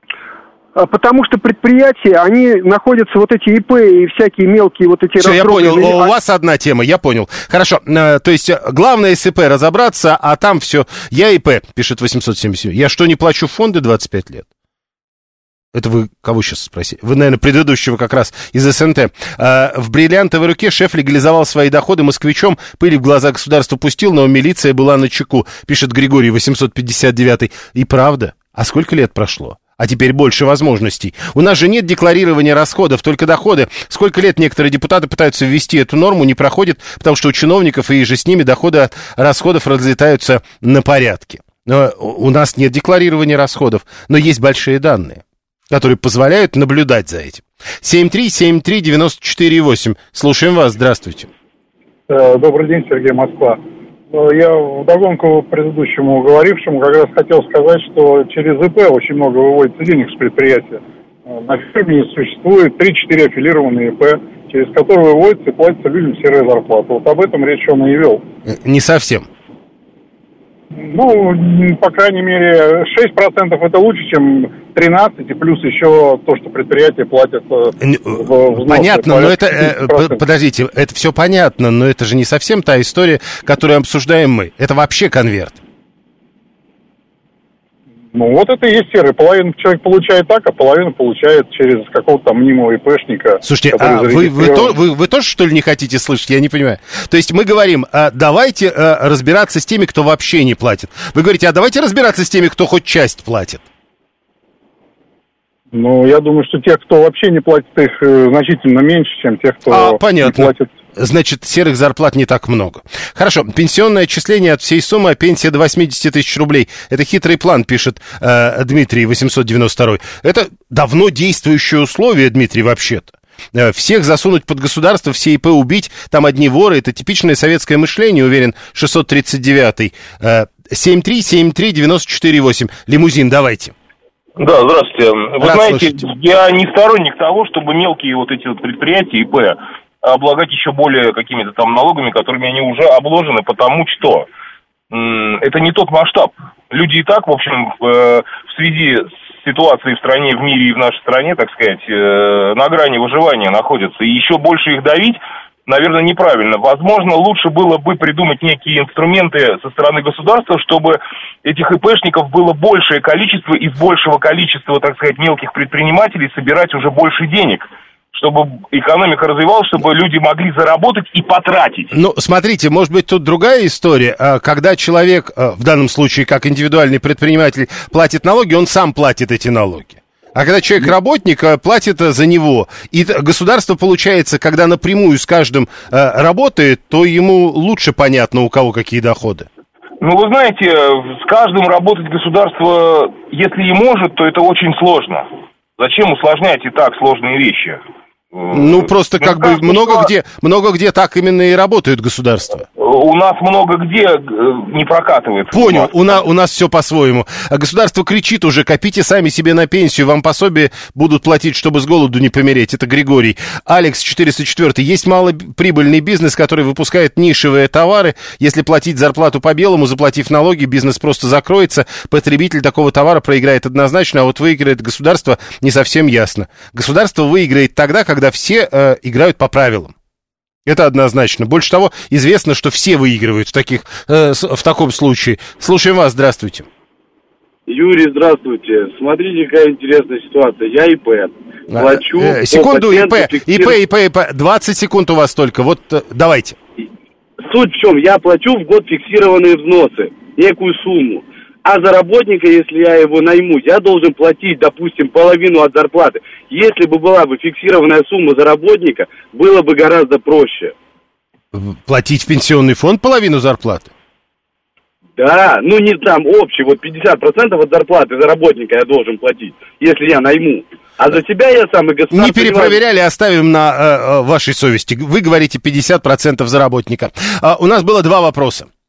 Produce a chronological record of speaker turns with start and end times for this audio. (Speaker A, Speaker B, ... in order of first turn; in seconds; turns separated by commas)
Speaker A: 0.8-6.1, Speaker B: 5.2-14.5, Speaker B: 15.7-51.3, Speaker C: 52.1-53.6, Speaker C: 54.1-68.2, Speaker B: 68.5-69.3, Speaker C: 70.8-80.2, Speaker B: 77.8-85.6, Speaker C: 88.1-94.8, Speaker B: 93.4-103.6, Speaker C: 105.7-110.7, Speaker B: 109.7-133.7, Speaker D: 134.4-144.3, Speaker B: 135.4-136.1, Speaker D: 144.9-171.9, Speaker B: 171.9-189.5, Speaker D: 190.0-197.8, Speaker D: 198.3-200.1, Speaker B: 198.5-202.7, Speaker D: 202.8-206.2, Speaker B: 205.5-229.9, Speaker B: 230.7-236.7, Speaker E: 237.7-243.8, Speaker B: 241.7-246.6, Speaker E: 247.5-260.7, Speaker B: 261.5-263.9, Speaker E: 265.2-272.8, Speaker B: 272.1-278.7